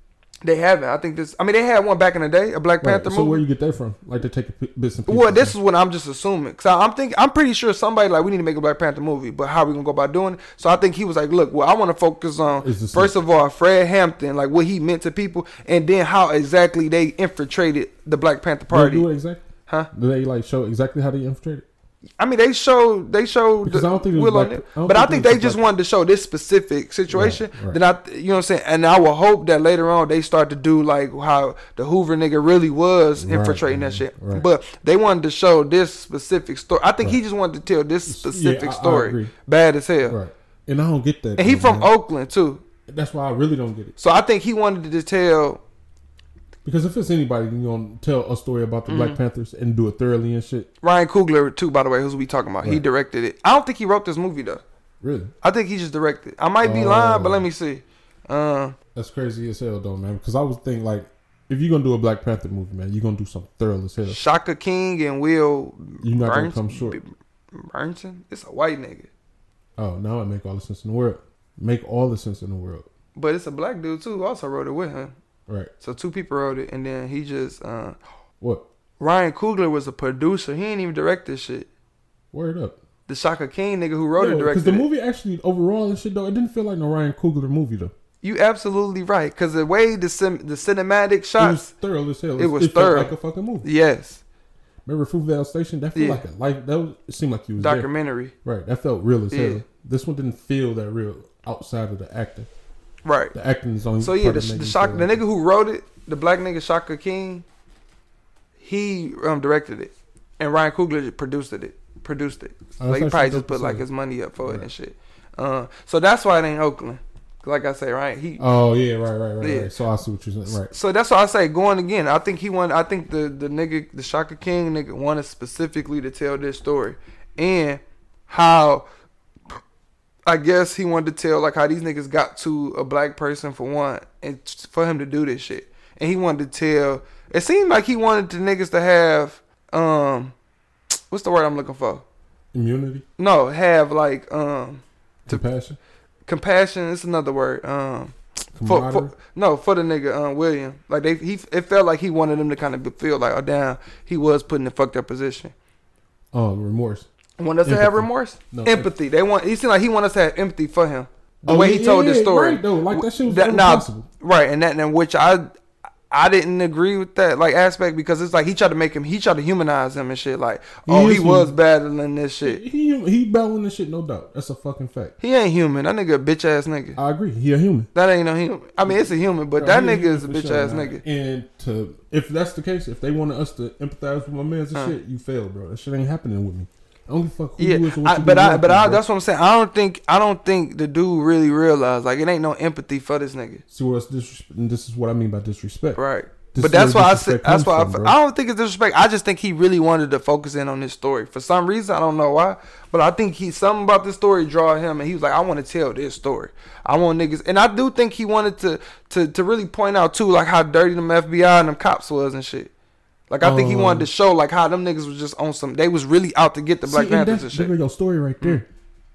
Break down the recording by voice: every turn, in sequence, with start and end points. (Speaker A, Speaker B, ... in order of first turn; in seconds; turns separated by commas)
Speaker A: 0.4-3.4, Speaker B: 2.8-5.5, Speaker A: 5.1-19.1, Speaker B: 12.6-13.1, Speaker B: 18.7-21.6, Speaker A: 22.2-40.2, Speaker B: 23.6-25.6, Speaker B: 27.1-27.8, Speaker B: 33.2-34.5, Speaker B: 38.0-39.3, Speaker B: 40.1-41.9, Speaker A: 41.4-42.6, Speaker B: 42.9-43.9, Speaker A: 44.0-45.6, Speaker B: 46.6-50.7, Speaker A: 48.9-49.2, Speaker A: 50.8-54.6, Speaker B: 55.0-55.3, Speaker A: 55.4-58.7, Speaker B: 56.6-57.5, Speaker B: 58.9-64.2, Speaker A: 64.0-69.1, Speaker B: 66.0-67.0, Speaker B: 69.8-72.9, Speaker A: 73.2-75.1, Speaker A: 75.8-78.0, Speaker A: 79.0-81.7, Speaker B: 82.3-82.8, Speaker A: 83.1-84.8, Speaker B: 84.2-87.9, Speaker A: 88.2-91.7, Speaker B: 91.4-93.7, Speaker A: 92.4-94.2, Speaker B: 94.8-97.9, Speaker A: 95.9-96.2, Speaker A: 97.6-98.3, Speaker B: 98.4-102.5, Speaker A: 99.3-99.6, Speaker A: 103.0-103.3, Speaker B: 103.3-105.2, Speaker A: 104.0-107.4, Speaker A: 108.6-118.4, Speaker B: 112.8-113.8, Speaker B: 118.4-120.7, Speaker A: 119.4-119.7, Speaker A: 120.5-128.8, Speaker A: 130.2-140.3, Speaker A: 141.1-142.0, Speaker B: 142.5-143.0, Speaker A: 143.2-145.4, Speaker B: 145.2-145.8, Speaker A: 146.2-155.5, Speaker B: 148.5-149.1, Speaker B: 156.3-157.1, Speaker A: 157.4-165.5, Speaker B: 157.6-158.9, Speaker B: 161.4-164.1, Speaker A: 166.1-172.6, Speaker B: 170.8-171.5, Speaker B: 172.4-175.1, Speaker A: 175.2-177.0, Speaker B: 176.9-177.9, Speaker A: 177.9-181.0, Speaker B: 178.8-189.0, Speaker A: 187.6-193.6, Speaker B: 193.7-196.0, Speaker A: 195.9-212.7, Speaker B: 196.5-198.2, Speaker A: 213.3-217.7, Speaker B: 213.4-214.1, Speaker B: 216.8-218.7